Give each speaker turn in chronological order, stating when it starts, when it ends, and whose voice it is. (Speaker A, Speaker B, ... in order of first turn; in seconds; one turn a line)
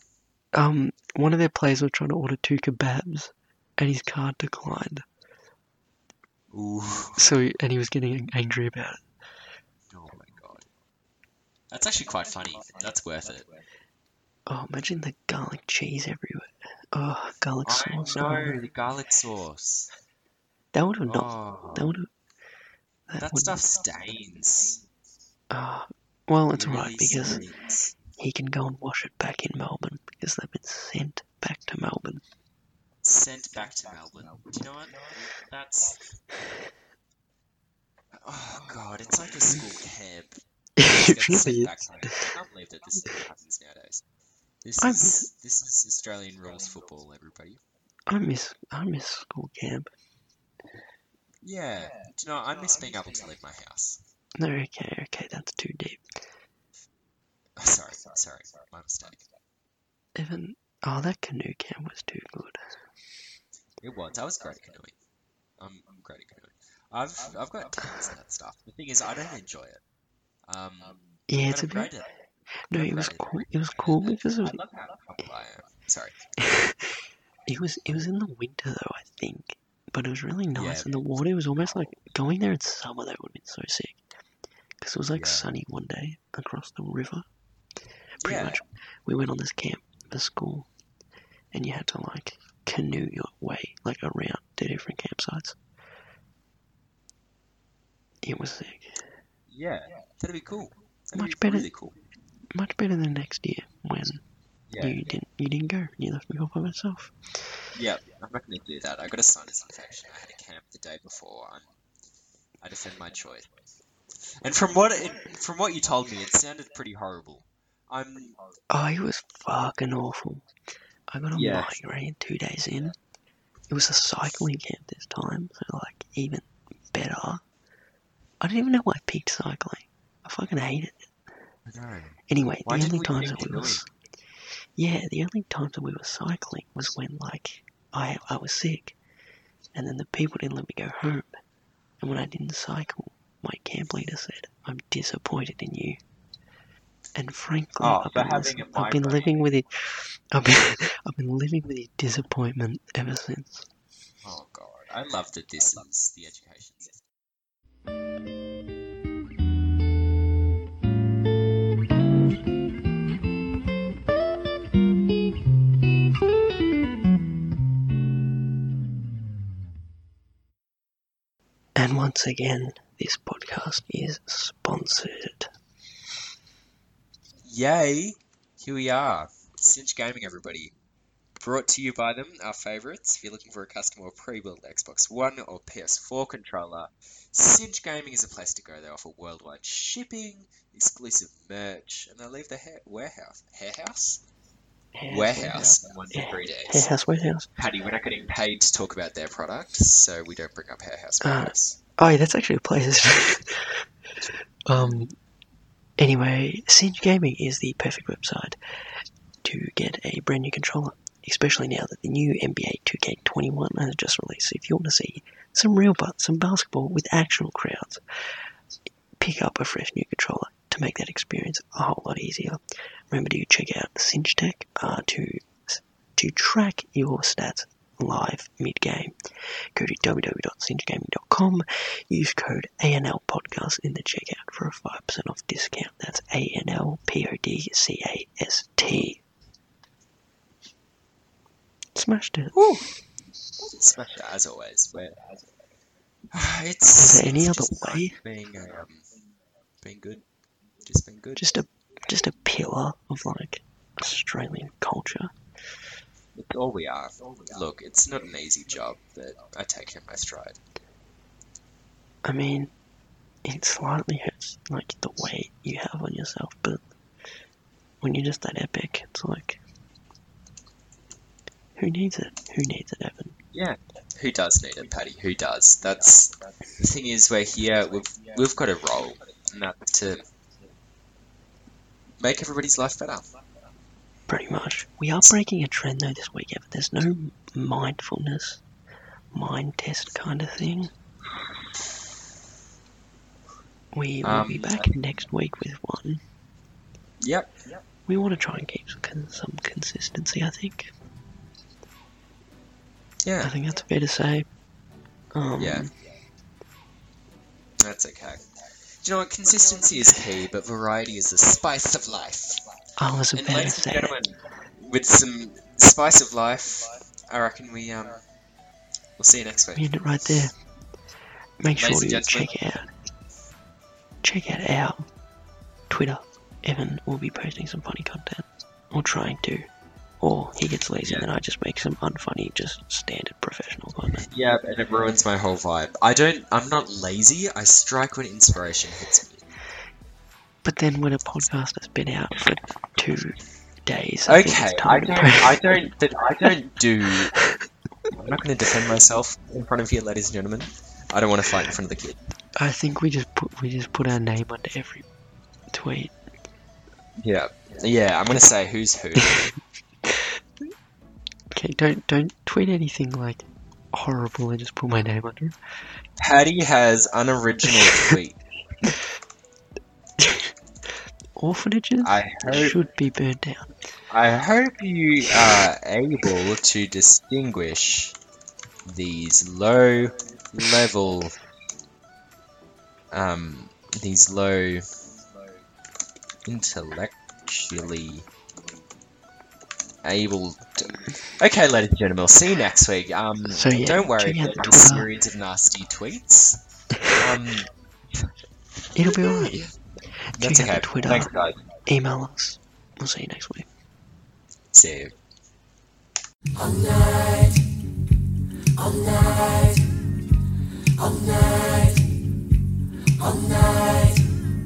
Speaker A: 0.5-5.0
Speaker B: 6.5-7.2
Speaker A: 7.2-9.0
Speaker B: 9.9-10.7
Speaker B: 11.7-13.5
Speaker A: 14.5-18.5
Speaker B: 17.6-19.9
Speaker A: 20.7-22.1
Speaker B: 21.1-21.9
Speaker A: 23.1-23.6
Speaker B: 23.2-24.8
Speaker A: 25.5-27.4
Speaker B: 26.5-27.9
Speaker A: 28.2-32.2
Speaker B: 33.0-36.0
Speaker B: 38.1-44.0
Speaker A: 40.8-42.2
Speaker B: 44.6-47.6
Speaker A: 44.8-45.3
Speaker A: 48.1-49.9
Speaker B: 51.4-54.0
Speaker A: 54.4-56.0
Speaker B: 57.6-59.2
Speaker A: 60.1-62.6
Speaker B: 63.8-65.0
Speaker B: 65.6-69.8
Speaker B: 70.5-72.1
Speaker A: 71.3-71.9
Speaker A: 72.7-74.6
Speaker B: 72.7-76.2
Speaker A: 76.4-77.0
Speaker A: 77.5-84.0
Speaker B: 80.5-81.0
Speaker A: 84.8-87.2
Speaker B: 85.1-85.5
Speaker B: 88.2-88.6
Speaker A: 88.2-90.7
Speaker A: 91.5-95.6
Speaker A: 98.2-99.0
Speaker B: 99.5-101.9
Speaker A: 101.1-101.7
Speaker A: 102.5-104.2
Speaker B: 104.7-105.0
Speaker A: 104.8-107.1
Speaker B: 107.7-111.7
Speaker B: 112.6-113.5
Speaker B: 114.2-118.4
Speaker A: 118.7-120.4
Speaker A: 121.1-123.0
Speaker B: 121.3-121.8
Speaker A: 123.7-127.4
Speaker A: 128.4-131.1
Speaker B: 131.7-133.8
Speaker A: 132.3-133.9
Speaker A: 134.8-139.0
Speaker A: 139.7-141.3
Speaker A: 142.0-146.0
Speaker A: 147.1-153.7
Speaker B: 147.8-149.3
Speaker B: 154.2-157.0
Speaker A: 171.8-175.5
Speaker B: 177.4-180.7
Speaker B: 181.4-194.2
Speaker A: 194.9-197.5
Speaker B: 195.1-196.9
Speaker B: 197.6-201.8
Speaker A: 201.2-203.9
Speaker A: 204.7-205.1
Speaker B: 204.7-205.0
Speaker A: 206.0-208.6
Speaker A: 209.4-218.0
Speaker A: 219.2-222.6
Speaker A: 223.1-239.2
Speaker A: 241.9-242.6
Speaker B: 242.5-242.9
Speaker B: 243.6-245.2
Speaker B: 246.3-249.1
Speaker A: 246.9-248.2
Speaker B: 249.8-250.2
Speaker B: 250.8-251.5
Speaker A: 251.4-255.3
Speaker B: 256.3-260.6
Speaker A: 262.2-262.7
Speaker A: 263.4-266.8
Speaker A: 268.0-269.6
Speaker A: 271.8-273.4
Speaker B: 273.5-280.2
Speaker B: 282.2-283.2
Speaker A: 284.3-288.6
Speaker A: 289.3-290.9
Speaker A: 293.9-296.2
Speaker B: 294.2-294.9
Speaker B: 297.2-297.5
Speaker A: 298.1-300.9
Speaker B: 303.2-303.5
Speaker A: 303.4-304.5
Speaker A: 305.3-305.9
Speaker B: 305.6-305.9
Speaker B: 307.8-308.5
Speaker B: 309.0-312.6
Speaker A: 313.0-314.2
Speaker B: 313.3-318.2
Speaker B: 319.2-319.9
Speaker A: 319.7-320.6
Speaker A: 321.6-322.9
Speaker B: 321.8-322.8
Speaker A: 324.2-325.1
Speaker A: 325.9-329.7
Speaker A: 330.2-334.2
Speaker B: 334.2-339.4
Speaker A: 340.6-345.6
Speaker B: 344.3-347.4
Speaker B: 348.1-352.2
Speaker A: 352.6-355.1
Speaker A: 355.7-356.1
Speaker B: 357.2-359.4
Speaker A: 359.2-359.5
Speaker A: 360.1-360.4
Speaker A: 361.5-365.5
Speaker B: 366.2-368.4
Speaker A: 370.2-370.5
Speaker A: 371.4-373.7
Speaker B: 372.0-372.8
Speaker B: 374.1-378.1
Speaker B: 378.8-381.4
Speaker B: 383.1-384.9
Speaker B: 386.4-388.3
Speaker B: 390.0-397.7
Speaker A: 393.5-395.1
Speaker A: 398.9-399.7
Speaker B: 399.1-399.7
Speaker A: 400.3-401.3
Speaker B: 400.4-401.6
Speaker A: 401.9-403.6
Speaker B: 404.7-405.1
Speaker C: 406.5-407.6
Speaker C: 408.8-409.9
Speaker C: 410.9-412.0
Speaker C: 413.2-414.2